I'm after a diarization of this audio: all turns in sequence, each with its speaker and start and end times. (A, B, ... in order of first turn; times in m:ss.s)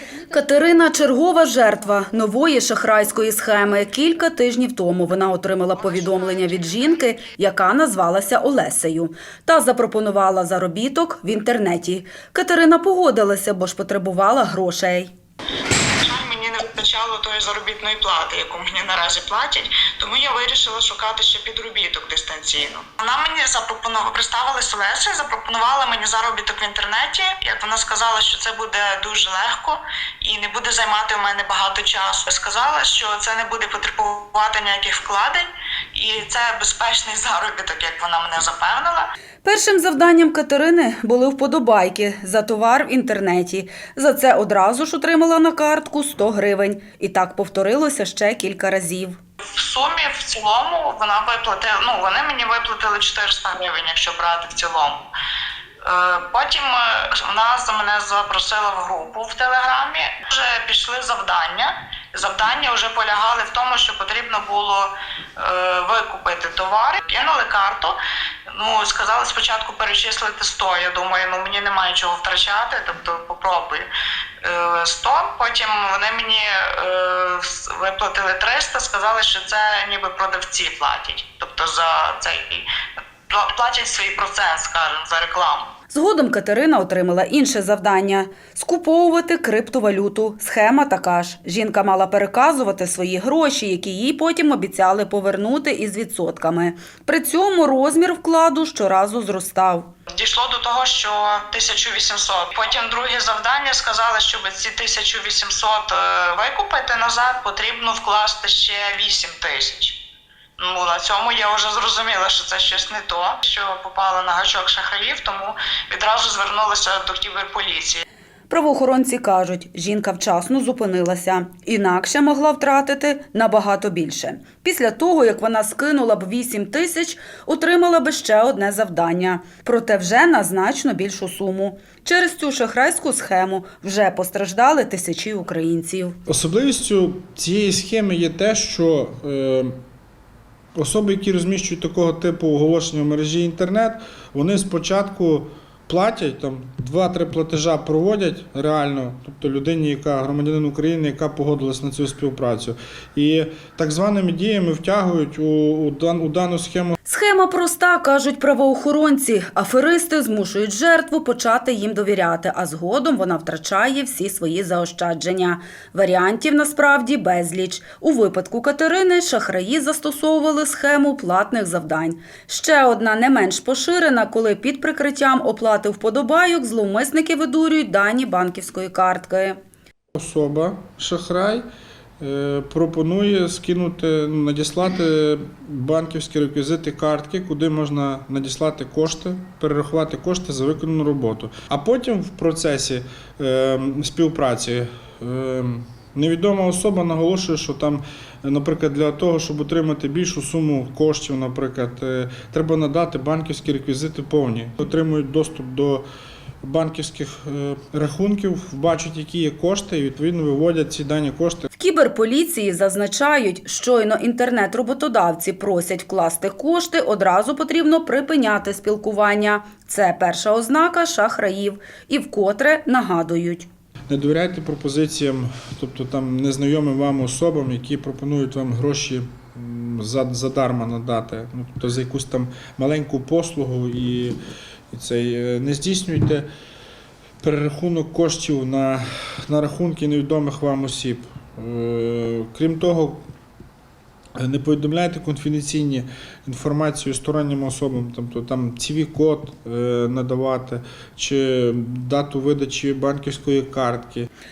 0:00.3-0:15.1 A
0:05.8-0:07.0 B
0:16.0-0:39.1 B
0:39.4-0:49.2 A
0:49.4-0:55.1 B
0:55.8-1:08.0 B
1:08.5-1:13.9 B
1:14.4-1:22.7 B
1:23.3-1:25.7 B
1:25.9-1:39.9 A
1:40.1-1:50.0 B
1:50.6-1:58.0 B
1:58.5-2:16.2 A
2:16.3-2:19.8 C
2:20.8-2:37.0 C
2:37.1-2:59.6 A
3:00.2-3:01.6 C
3:02.2-3:26.1 C
3:26.6-3:31.7 C
3:31.8-3:43.7 A
3:44.1-3:54.4 C
3:54.9-3:56.5 C
3:57.4-4:03.3 C
4:04.4-4:14.3 C